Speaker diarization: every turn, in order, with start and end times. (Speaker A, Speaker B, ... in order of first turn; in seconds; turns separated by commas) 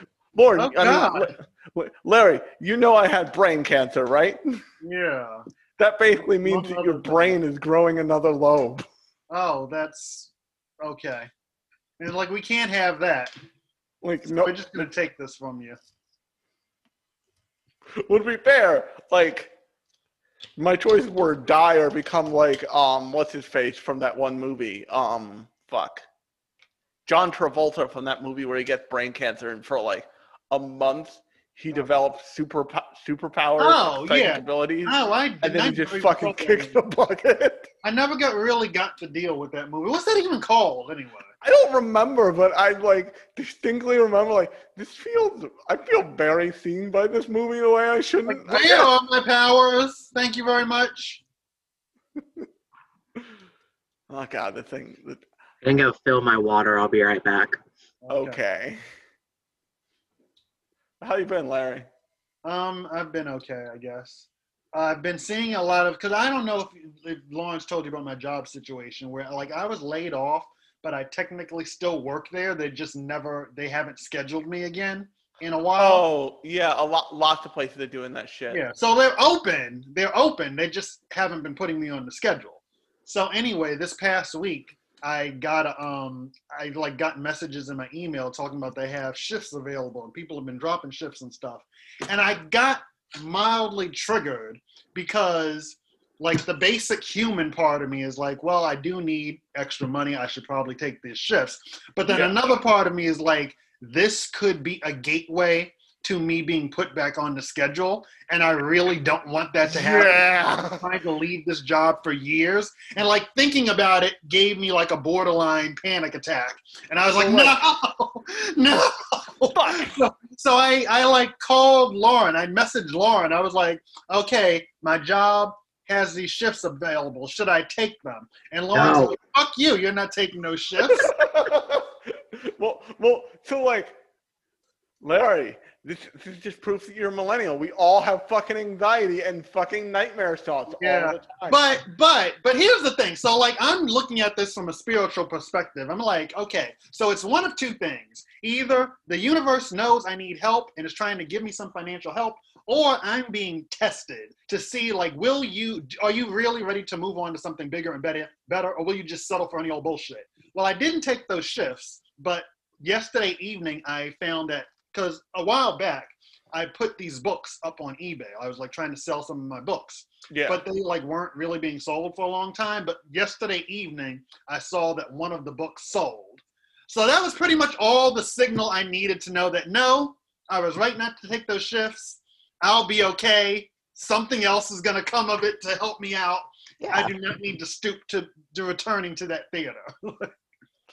Speaker A: 0.3-4.6, Speaker B: 0.6-1.3, Speaker B: 4.8-5.4, Speaker A: 5.8-8.8, Speaker B: 6.4-7.4, Speaker B: 9.3-10.3, Speaker B: 10.8-11.3, Speaker B: 12.0-13.3, Speaker A: 14.0-14.9, Speaker B: 14.3-15.8, Speaker A: 18.0-19.5, Speaker A: 20.6-26.1, Speaker A: 27.1-37.7, Speaker B: 33.6-36.8, Speaker B: 37.8-41.3, Speaker A: 41.4-48.9, Speaker B: 48.3-51.2, Speaker A: 54.1-55.2, Speaker C: 55.6-57.6, Speaker B: 58.0-58.4, Speaker A: 58.1-58.8, Speaker A: 61.0-61.9, Speaker B: 62.5-76.0, Speaker A: 75.8-78.6, Speaker B: 78.5-131.1, Speaker A: 102.1-102.4, Speaker A: 109.7-110.9, Speaker A: 117.2-117.6, Speaker A: 119.5-120.0, Speaker C: 128.7-129.2, Speaker A: 130.8-134.0, Speaker A: 135.0-141.6, Speaker B: 140.7-190.3, Speaker A: 170.3-170.6, Speaker C: 186.8-187.1